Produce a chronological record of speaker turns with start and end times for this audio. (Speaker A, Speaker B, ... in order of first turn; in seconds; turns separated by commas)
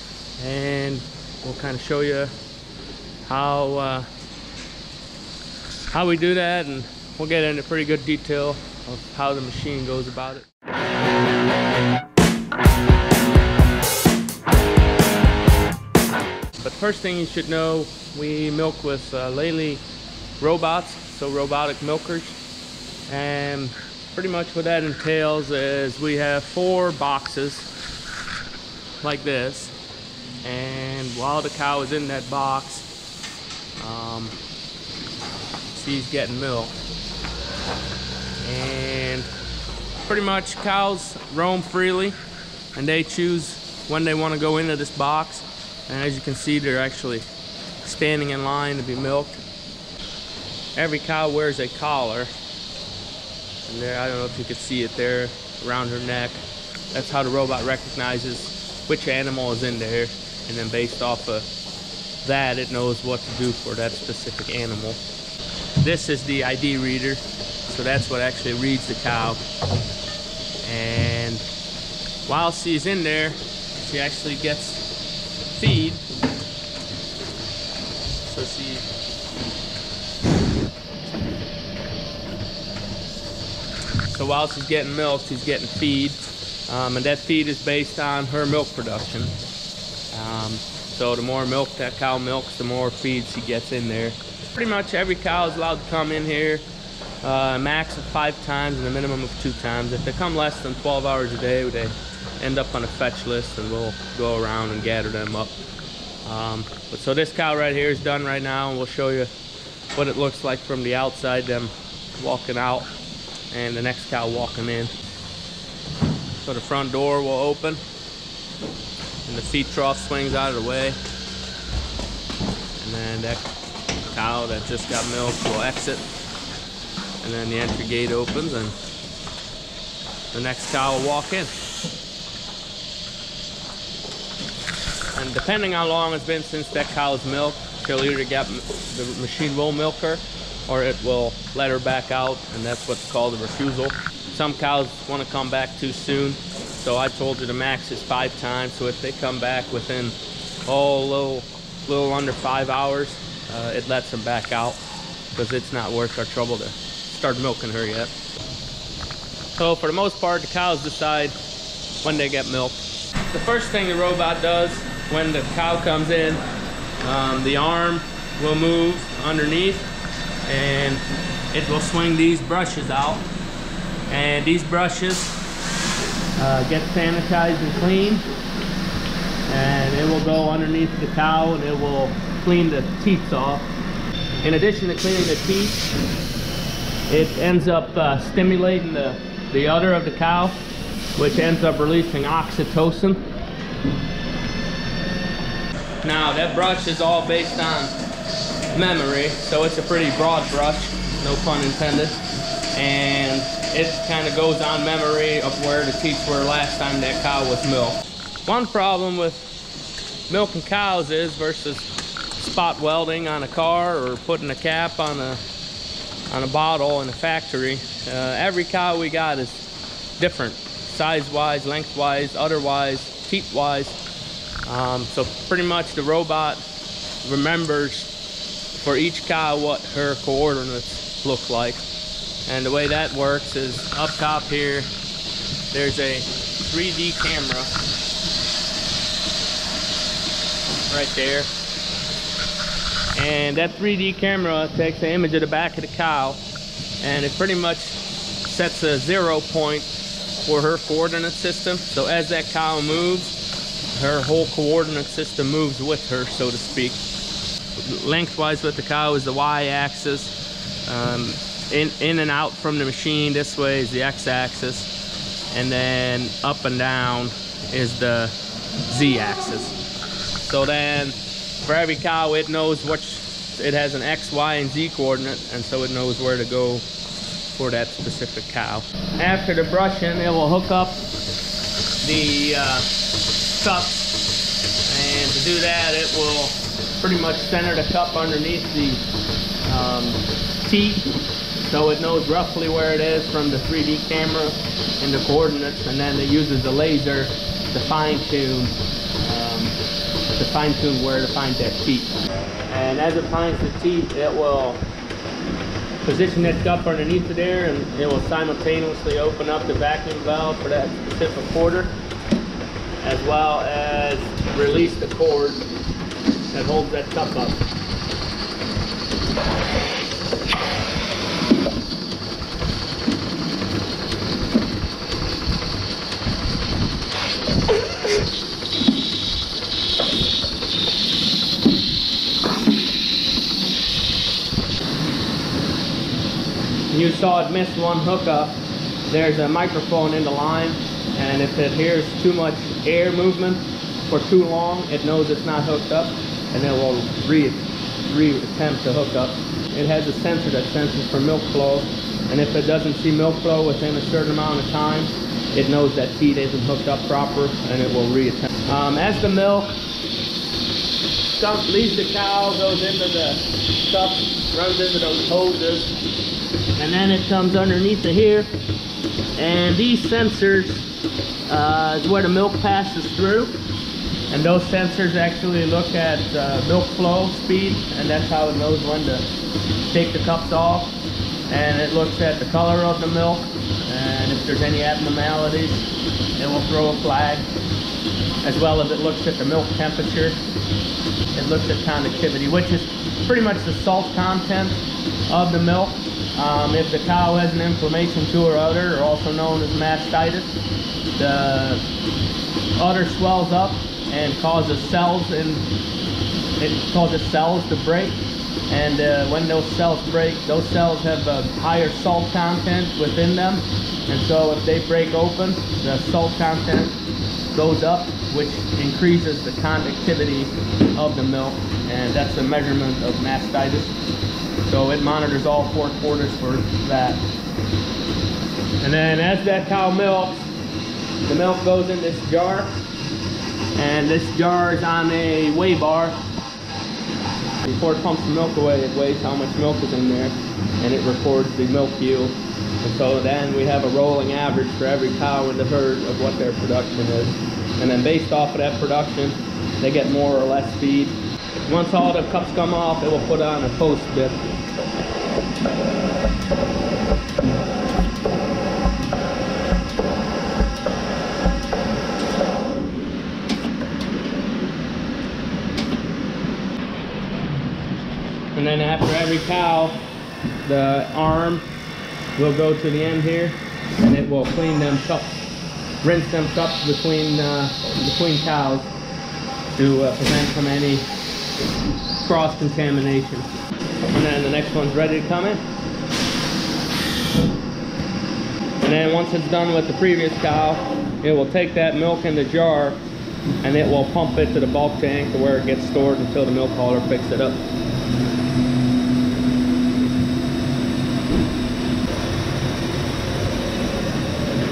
Speaker A: 0.4-2.4, Speaker A: 3.2-4.1, Speaker A: 5.9-10.5, Speaker A: 16.6-19.8, Speaker A: 20.4-22.4, Speaker A: 23.1-27.7, Speaker A: 29.0-29.8, Speaker A: 30.4-32.9, Speaker A: 33.8-34.4, Speaker A: 35.7-36.8, Speaker A: 38.4-39.3, Speaker A: 40.0-42.2, Speaker A: 42.7-47.3, Speaker A: 47.8-49.4, Speaker A: 50.8-52.3, Speaker A: 53.6-61.5, Speaker A: 62.2-65.0, Speaker A: 65.8-69.4, Speaker A: 70.6-71.4, Speaker A: 72.3-74.8, Speaker A: 75.5-76.0, Speaker A: 78.2-78.9, Speaker A: 84.0-89.3, Speaker A: 90.1-96.7, Speaker A: 97.2-105.6, Speaker A: 106.2-109.3, Speaker A: 109.9-112.9, Speaker A: 113.5-114.9, Speaker A: 116.4-117.8, Speaker A: 119.3-121.0, Speaker A: 122.8-123.5, Speaker A: 124.1-126.1, Speaker A: 127.2-128.8, Speaker A: 130.3-131.5, Speaker A: 135.1-154.8, Speaker A: 155.3-158.1, Speaker A: 159.6-161.3, Speaker A: 162.0-166.4, Speaker A: 167.0-169.9, Speaker A: 170.4-173.3, Speaker A: 174.1-175.4, Speaker A: 176.4-178.3, Speaker A: 179.5-183.7, Speaker A: 184.4-185.9, Speaker A: 187.1-190.6, Speaker A: 191.2-193.2, Speaker A: 196.0-197.9, Speaker A: 198.7-209.5, Speaker A: 210.3-215.4, Speaker A: 216.3-219.7, Speaker A: 220.2-224.0, Speaker A: 224.7-226.7, Speaker A: 227.2-228.1, Speaker A: 228.7-231.8, Speaker A: 232.5-234.9, Speaker A: 235.7-237.7, Speaker A: 240.9-241.5, Speaker A: 243.1-246.4, Speaker A: 247.0-253.3, Speaker A: 253.9-257.0, Speaker A: 257.8-260.4, Speaker A: 260.9-264.9, Speaker A: 265.5-268.4, Speaker A: 268.9-269.8, Speaker A: 270.4-276.9, Speaker A: 277.5-281.1, Speaker A: 282.0-282.9, Speaker A: 283.4-284.2, Speaker A: 284.9-289.0, Speaker A: 289.6-291.1, Speaker A: 291.6-299.8, Speaker A: 300.3-302.1, Speaker A: 302.7-304.8, Speaker A: 306.0-312.0, Speaker A: 313.0-315.6, Speaker A: 316.5-317.7, Speaker A: 336.9-359.8, Speaker A: 361.3-365.9, Speaker A: 366.8-368.5, Speaker A: 369.4-370.9, Speaker A: 371.5-373.6, Speaker A: 374.3-379.3, Speaker A: 379.9-381.0, Speaker A: 381.5-387.5, Speaker A: 388.4-390.4, Speaker A: 391.3-400.6, Speaker A: 401.1-401.8, Speaker A: 402.8-405.7, Speaker A: 406.6-417.0, Speaker A: 417.5-424.0, Speaker A: 424.6-427.2, Speaker A: 428.8-430.5, Speaker A: 431.2-432.8, Speaker A: 433.7-436.2, Speaker A: 437.6-454.4, Speaker A: 468.5-470.0, Speaker A: 470.6-471.7, Speaker A: 472.4-475.4, Speaker A: 476.0-478.9, Speaker A: 479.7-481.1, Speaker A: 482.2-483.5, Speaker A: 484.1-485.6, Speaker A: 488.8-493.0, Speaker A: 493.6-497.6